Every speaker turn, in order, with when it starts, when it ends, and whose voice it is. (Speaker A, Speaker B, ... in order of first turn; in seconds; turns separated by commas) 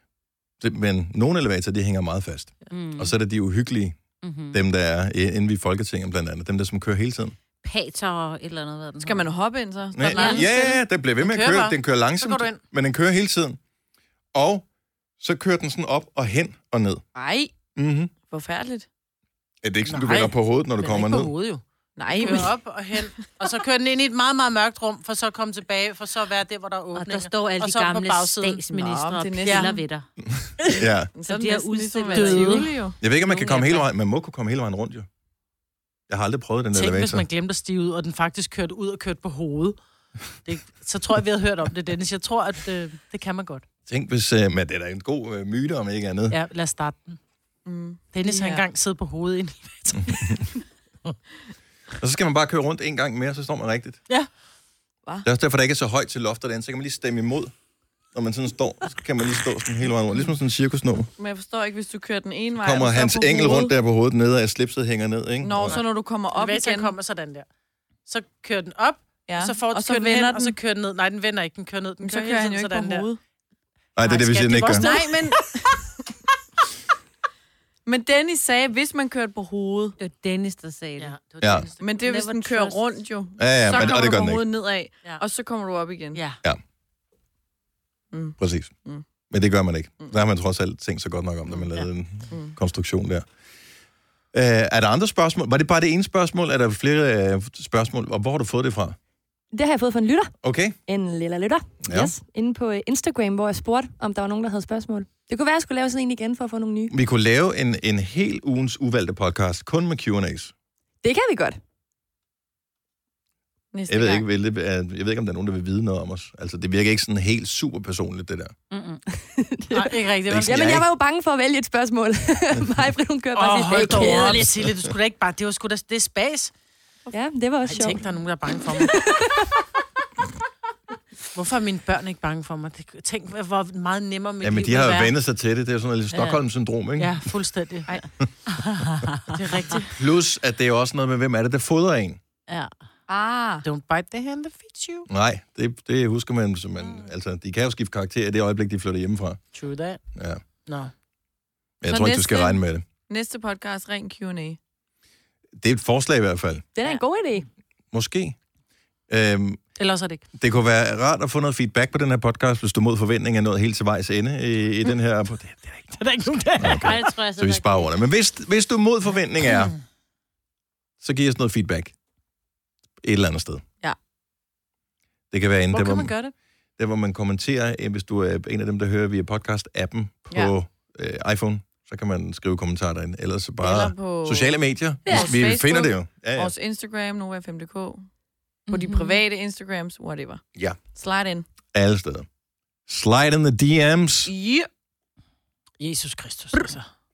Speaker A: 0.6-4.0, Speaker B: 2.7-3.1, Speaker B: 4.2-4.6, Speaker A: 4.5-7.3, Speaker B: 7.6-9.3, Speaker C: 9.0-10.6, Speaker A: 9.9-13.6, Speaker B: 10.1-10.7, Speaker D: 10.2-10.5, Speaker D: 11.2-12.6, Speaker A: 14.3-14.6, Speaker A: 15.2-17.0, Speaker C: 17.1-17.5, Speaker A: 17.8-18.1, Speaker C: 18.3-18.9, Speaker A: 19.6-21.3, Speaker D: 19.9-28.6, Speaker C: 22.0-22.6, Speaker B: 26.9-30.1, Speaker C: 28.7-29.8, Speaker D: 29.4-29.7, Speaker A: 30.3-31.1, Speaker C: 31.1-33.0, Speaker B: 31.2-32.7, Speaker D: 32.1-32.7, Speaker A: 33.0-35.1, Speaker B: 33.2-33.9, Speaker A: 36.1-37.2, Speaker D: 36.7-39.8, Speaker D: 40.4-43.6, Speaker A: 43.9-46.4, Speaker D: 46.3-47.2, Speaker C: 47.6-48.6, Speaker D: 48.1-50.5, Speaker A: 52.0-54.0, Speaker A: 55.2-57.5, Speaker A: 58.1-61.1, Speaker C: 61.2-63.7, Speaker A: 62.6-65.8, Speaker C: 65.4-66.9, Speaker D: 65.7-67.5, Speaker D: 68.1-73.1, Speaker C: 69.3-70.5, Speaker C: 72.0-73.2, Speaker A: 74.0-74.9, Speaker D: 74.0-75.4, Speaker C: 74.7-75.9, Speaker C: 77.8-80.0, Speaker B: 80.0-81.2, Speaker D: 81.0-82.2, Speaker A: 81.4-81.7, Speaker C: 81.8-86.2, Speaker B: 82.0-82.8, Speaker A: 83.4-84.5, Speaker C: 88.1-89.0, Speaker A: 88.4-88.7, Speaker A: 89.3-93.2, Speaker C: 92.3-92.5, Speaker A: 94.3-99.0, Speaker E: 99.5-100.3, Speaker A: 100.4-100.8, Speaker E: 100.8-106.9, Speaker A: 101.8-102.1, Speaker A: 106.9-110.5, Speaker E: 111.0-111.6, Speaker C: 113.7-114.2, Speaker A: 113.9-118.5, Speaker B: 118.7-119.0, Speaker E: 119.1-124.6, Speaker D: 119.7-120.7, Speaker A: 120.3-120.8, Speaker D: 123.3-126.5, Speaker E: 127.1-129.5, Speaker D: 127.7-128.9, Speaker D: 131.3-135.1, Speaker A: 134.4-137.2, Speaker D: 136.1-136.4, Speaker D: 137.0-138.0, Speaker B: 138.5-139.2, Speaker D: 139.3-139.9, Speaker A: 139.9-142.2, Speaker C: 143.1-143.7, Speaker D: 143.6-145.1, Speaker A: 145.1-149.4, Speaker D: 149.5-150.0, Speaker A: 150.2-150.4, Speaker D: 150.7-150.9, Speaker A: 151.8-152.8, Speaker C: 151.8-154.6, Speaker A: 155.6-156.6, Speaker E: 156.7-157.5, Speaker A: 157.9-158.4, Speaker A: 159.1-159.6, Speaker D: 159.8-160.2, Speaker A: 160.4-169.7, Speaker D: 166.0-166.9, Speaker B: 166.7-167.9, Speaker A: 171.0-171.9, Speaker A: 173.0-173.6, Speaker A: 175.3-176.1, Speaker D: 175.7-176.3, Speaker A: 176.8-186.5, Speaker C: 183.6-188.0, Speaker B: 185.1-185.3, Speaker C: 188.7-190.4, Speaker B: 188.8-189.1, Speaker C: 190.9-191.4, Speaker A: 191.7-192.2, Speaker A: 192.9-194.3, Speaker C: 194.3-194.7, Speaker D: 195.8-196.9